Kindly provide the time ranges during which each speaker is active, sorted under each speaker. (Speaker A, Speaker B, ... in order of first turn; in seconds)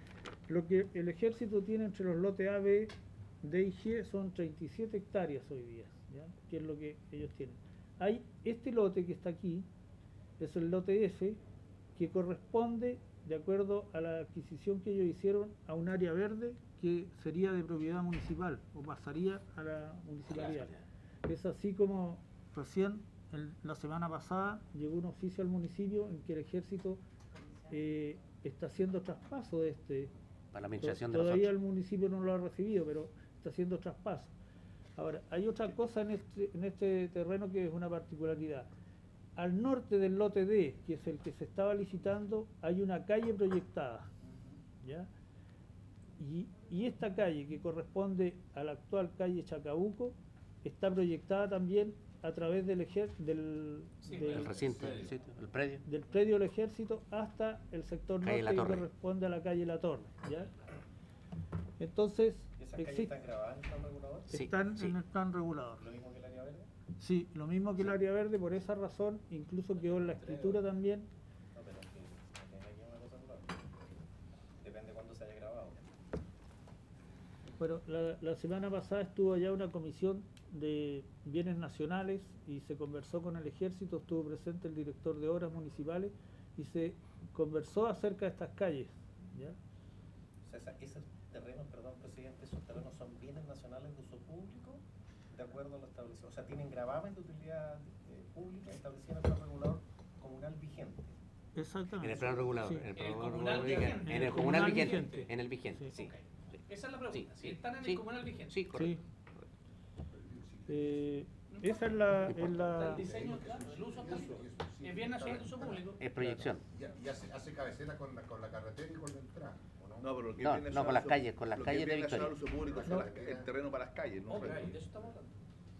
Speaker A: 0.5-9.7, 10.4-11.4, 11.9-20.7, 21.2-27.0, 27.7-30.1, 30.8-34.3, 35.0-38.7, 39.4-44.1, 44.8-45.1, 46.2-54.9, 55.9-60.5, 61.8-63.1, 64.3-65.8, 67.0-71.1, 77.6-89.6, 101.5-102.9, 103.7-106.0, 108.7-109.0, 110.7-113.1
Speaker B: 20.3-20.8, 30.5-31.5, 54.1-55.8, 58.2-58.9, 64.3-64.9, 102.0-106.1, 107.1-109.0, 112.3-112.8, 116.0-116.6, 120.4-122.3
Speaker C: 54.0-54.6, 102.9-105.3, 105.9-108.5, 111.5-116.0, 124.3-125.3
Speaker D: 54.8-55.1, 110.1-111.0, 113.0-120.1, 122.5-123.5
Speaker E: 62.6-64.3, 65.8-66.7, 69.8-70.6, 71.5-73.7, 74.6-75.8, 90.4-101.2
Speaker F: 113.2-113.5, 120.0-124.7